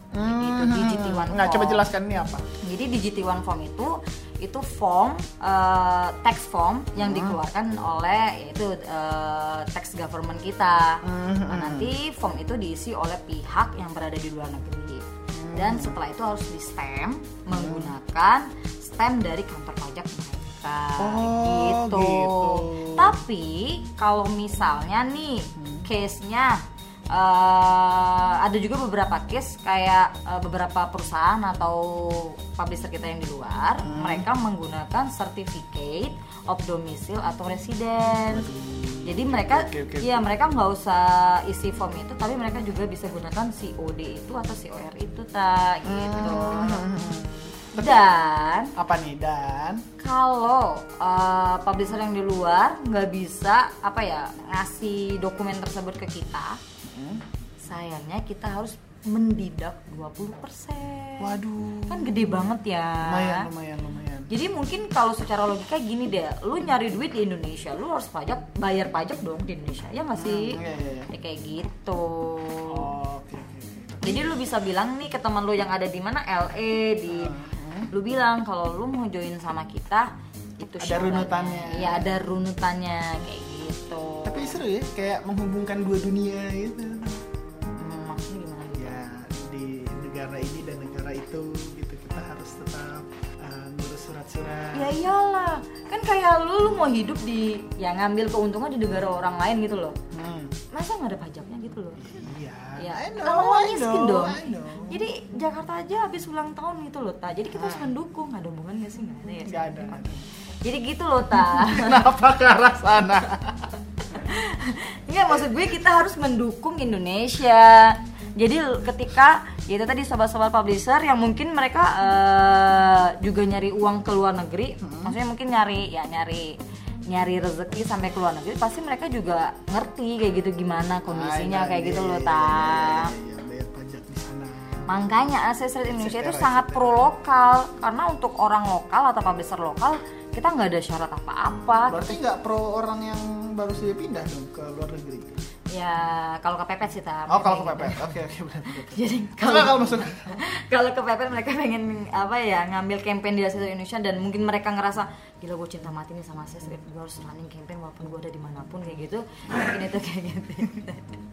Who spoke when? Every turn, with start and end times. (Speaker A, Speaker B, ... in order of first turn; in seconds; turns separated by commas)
Speaker A: 0.1-2.5, Speaker B: 0.2-1.9, Speaker B: 2.6-38.5, Speaker A: 7.0-7.4, Speaker A: 11.0-11.9, Speaker A: 15.3-16.0, Speaker A: 17.5-17.9, Speaker A: 21.0-23.2, Speaker A: 25.6-25.9, Speaker A: 33.8-34.3, Speaker A: 38.3-40.3, Speaker B: 39.0-46.9, Speaker A: 45.9-48.0, Speaker B: 47.8-48.7, Speaker A: 48.8-49.9, Speaker B: 50.0-56.6, Speaker A: 56.8-57.2, Speaker B: 57.6-61.4, Speaker A: 61.2-62.2, Speaker B: 61.9-63.5, Speaker A: 63.0-64.3, Speaker B: 64.3-72.9, Speaker A: 70.2-71.1, Speaker A: 72.7-74.3, Speaker B: 74.0-77.4, Speaker A: 77.1-77.9, Speaker B: 77.9-84.6, Speaker A: 80.8-82.2, Speaker A: 84.2-87.2, Speaker B: 87.8-89.0, Speaker A: 88.8-94.9, Speaker B: 94.7-100.0, Speaker A: 100.1-100.6, Speaker B: 100.7-102.1, Speaker A: 102.0-105.1, Speaker B: 102.8-112.0, Speaker A: 107.5-107.9, Speaker A: 109.5-110.2, Speaker A: 111.5-113.7, Speaker B: 114.1-133.1, Speaker A: 124.8-125.2, Speaker A: 131.1-135.0, Speaker B: 134.9-142.1, Speaker A: 135.9-137.1, Speaker A: 141.9-145.3, Speaker B: 145.7-148.2, Speaker A: 147.3-150.4, Speaker B: 148.7-161.2